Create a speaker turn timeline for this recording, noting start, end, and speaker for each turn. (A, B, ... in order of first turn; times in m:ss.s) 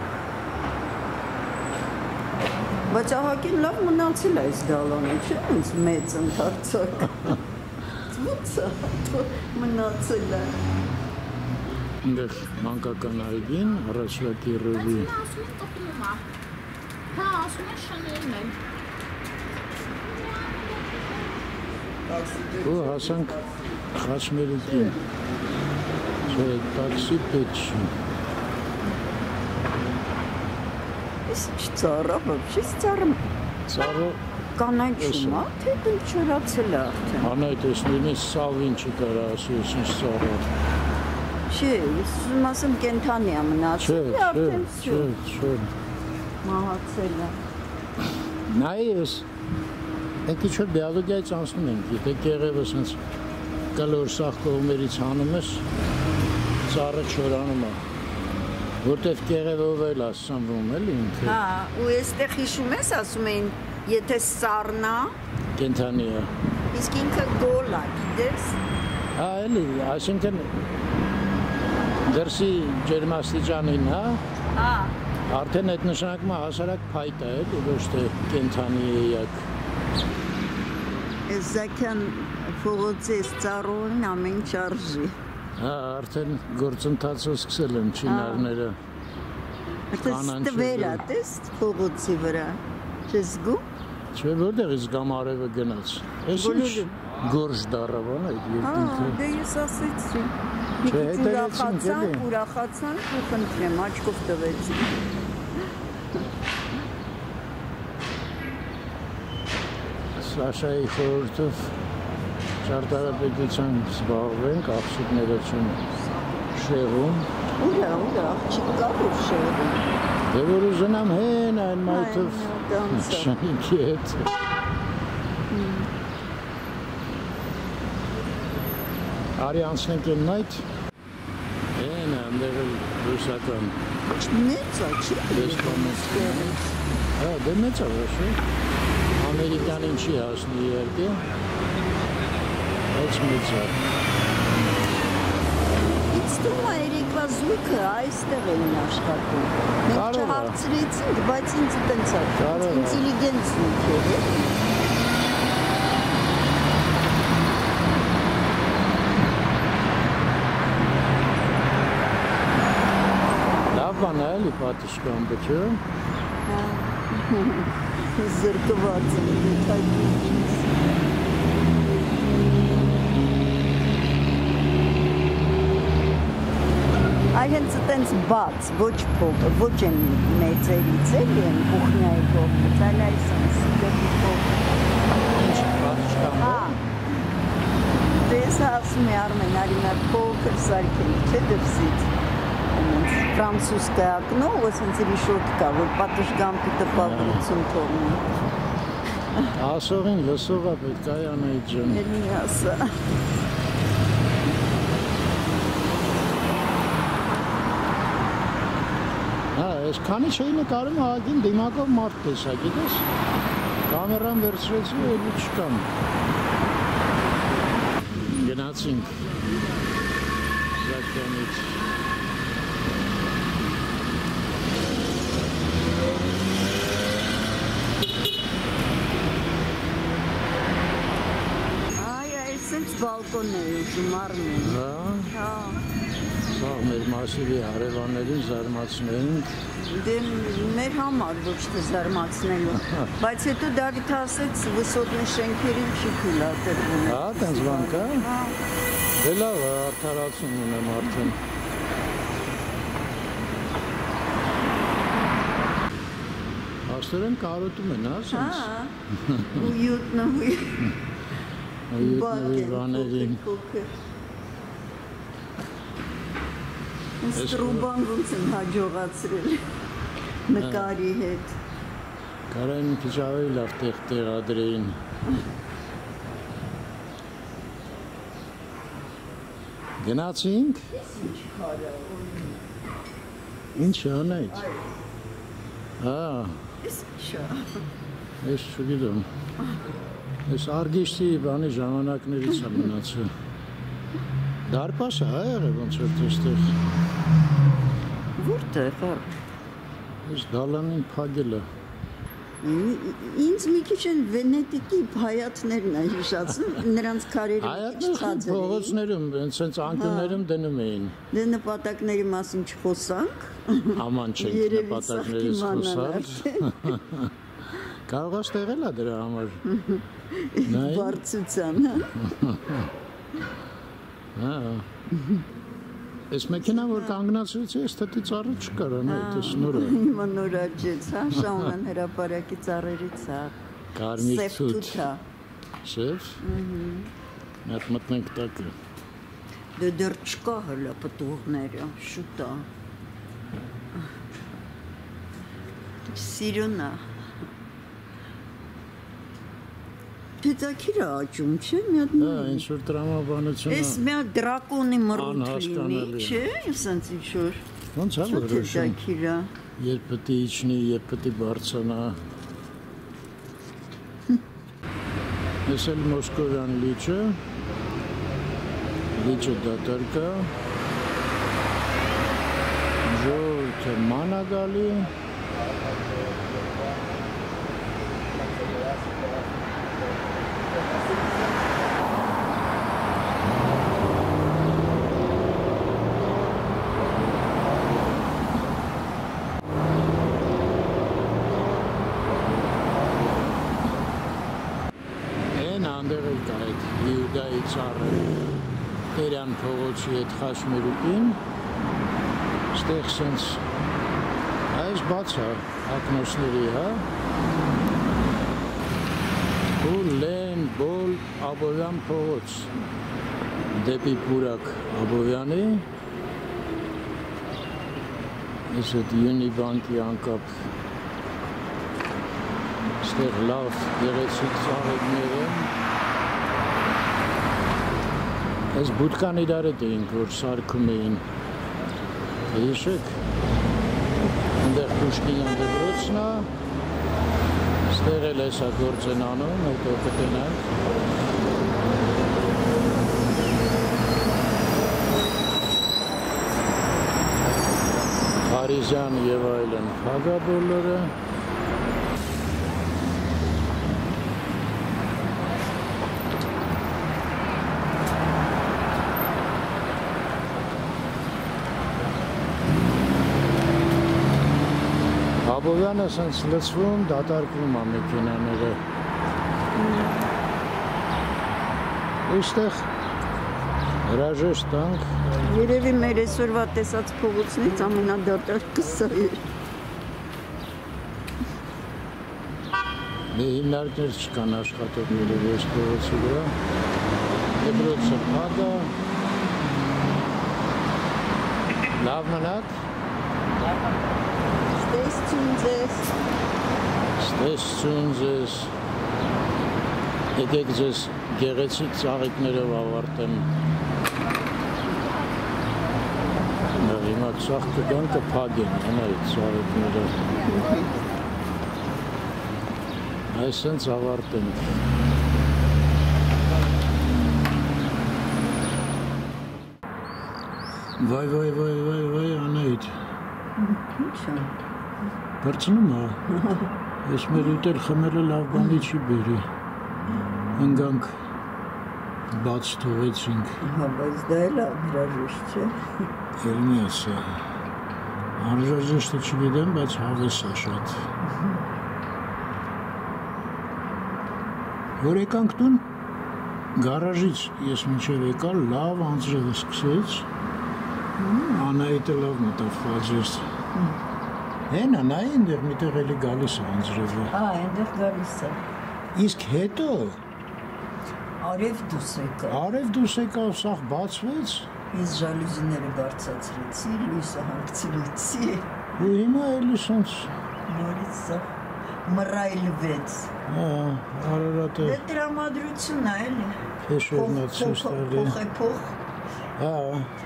0:02.9-0:07.4 A
0:08.1-0:10.6 A
0:12.0-0:15.3 B
0:15.2-0:16.2 C
0:17.1-0:18.6 C
0:20.0-0:21.3 C
0:22.1-0:23.6 A
0:22.6-0:25.0 B
0:26.3-0:27.9 B
0:31.3-0:33.3 A
0:33.7-0:34.2 B
0:34.6-0:37.3 A
0:35.0-0:35.4 B
0:37.2-0:40.5 B
0:41.5-0:45.1 A
0:43.8-0:45.7 B
0:46.4-0:47.4 A
0:48.5-0:49.3 B
0:50.3-0:53.0 B
0:53.7-0:55.7 B
0:56.6-0:57.8 B
0:58.8-1:01.4 B
1:01.2-1:05.1 A
1:05.5-1:06.3 B
1:06.7-1:08.6 A
1:09.1-1:10.6 B
1:12.0-1:14.2 B
1:14.5-1:15.0 A
1:15.3-1:19.5 B
1:21.3-1:25.1 A
1:25.6-1:28.8 B
1:28.0-1:28.5 A
1:29.9-1:33.6 A
1:30.0-1:31.0 B
1:34.1-1:39.2 B
1:36.3-1:37.0 A
1:38.6-1:45.0 A
1:40.9-1:42.2 B
1:50.2-1:51.8 B
1:52.6-1:55.8 B
1:56.5-1:57.3 B
1:57.6-1:59.9 A
2:00.3-2:04.4 B
2:01.9-2:03.4 A
2:05.5-2:05.9 A
2:09.4-2:10.7 B
2:11.7-2:13.8 B
2:14.1-2:16.7 A
2:15.3-2:16.6 B
2:17.2-2:18.4 B
2:19.2-2:21.2 B
2:22.9-2:23.8 B
2:26.1-2:34.6 A
2:29.9-2:30.6 B
2:32.4-2:33.0 B
2:43.7-2:45.8 B
2:46.5-2:50.9 A
2:57.3-3:04.5 A
3:05.3-3:06.8 B
3:06.4-3:06.8 A
3:08.2-3:12.1 A
3:12.7-3:18.2 A
3:16.9-3:17.4 B
3:19.6-3:22.1 B
3:21.8-3:22.9 A
3:29.5-3:33.1 B
3:33.9-3:35.9 B
3:38.2-3:39.3 B
3:40.8-3:41.8 B
3:52.0-3:55.8 A
3:54.6-3:55.3 B
3:56.5-3:59.5 B
3:59.8-4:08.6 A
4:02.8-4:03.1 B
4:07.0-4:08.3 B
4:09.2-4:11.4 B
4:16.8-4:19.6 B
4:18.3-4:18.9 A
4:19.5-4:20.9 A
4:21.9-4:23.4 B
4:22.0-4:23.9 A
4:27.2-4:29.6 A
4:27.4-4:27.9 B
4:30.5-4:31.6 A
4:30.6-4:30.9 B
4:32.5-4:35.0 B
4:40.0-4:40.9 B
4:40.9-4:42.6 A
4:43.8-4:44.6 B
4:44.4-4:44.9 A
4:46.0-4:46.6 B
4:46.8-4:47.8 A
4:48.4-4:49.3 B
4:50.5-4:53.3 B
4:54.7-4:56.7 B
4:58.4-4:59.4 A
5:00.2-5:01.7 B
5:02.6-5:09.0 A
5:07.6-5:11.2 B
5:09.9-5:10.4 A
5:11.3-5:17.0 A
5:13.9-5:19.6 B
5:19.6-5:22.1 A
5:20.7-5:21.2 B
5:22.2-5:22.9 B
5:24.4-5:24.9 B
5:26.3-5:30.0 B
5:26.6-5:27.2 A
5:29.1-5:33.6 A
5:34.0-5:35.1 B
5:34.2-5:35.2 A
5:35.8-5:36.4 B
5:36.4-5:37.1 A
5:37.6-5:38.8 B
5:39.8-5:42.7 A
5:46.0-5:47.0 A
5:50.4-5:52.7 A
5:52.2-5:54.0 B
5:53.7-5:57.6 A
5:55.1-5:56.4 B
5:57.9-5:59.0 B
5:58.2-5:59.5 A
5:59.8-6:02.2 B
6:05.6-6:07.4 B
6:09.1-6:10.6 B
6:13.0-6:15.1 B
6:35.5-6:38.3 B
6:39.1-6:41.4 B
6:42.7-6:43.6 B
6:44.7-6:47.1 B
6:49.8-6:52.7 B
6:53.7-6:55.9 B
6:58.7-7:00.6 B
7:03.0-7:05.7 B
7:08.7-7:11.2 B
7:12.5-7:13.2 B
7:14.6-7:16.5 B
7:17.8-7:20.7 B
7:28.4-7:31.1 B
7:45.4-7:48.8 B
7:49.8-7:50.3 A
7:52.3-7:52.9 B
7:54.0-7:55.1 B
7:55.4-7:59.4 A
8:03.3-8:06.6 B
8:07.6-8:09.0 B
8:11.9-8:12.8 B
8:14.7-8:16.2 A
8:17.2-8:18.7 B
8:20.4-8:23.5 B
8:26.8-8:30.2 B
8:33.3-8:34.8 B
8:41.0-8:42.9 B
8:43.6-8:44.5 A
8:45.4-8:46.2 B
8:46.3-8:46.7 A
8:47.0-8:49.5 B
8:50.6-8:51.2 B
8:52.3-8:53.6 B
8:53.6-8:55.7 A
8:56.4-8:57.3 B
8:58.4-9:01.1 B
9:05.0-9:05.9 B
9:06.8-9:10.3 B
9:11.2-9:11.7 A
9:11.5-9:13.5 B
9:14.7-9:17.3 B
9:17.3-9:18.6 A
9:19.2-9:20.2 B
9:21.4-9:22.7 A
9:22.5-9:24.7 B
9:24.9-9:28.7 A
9:29.0-9:30.3 B
9:30.7-9:31.5 A
9:32.0-9:33.3 A
9:33.5-9:35.0 B
9:34.8-9:36.6 A
9:36.8-9:38.4 B
9:37.1-9:39.0 A
9:39.6-9:40.1 B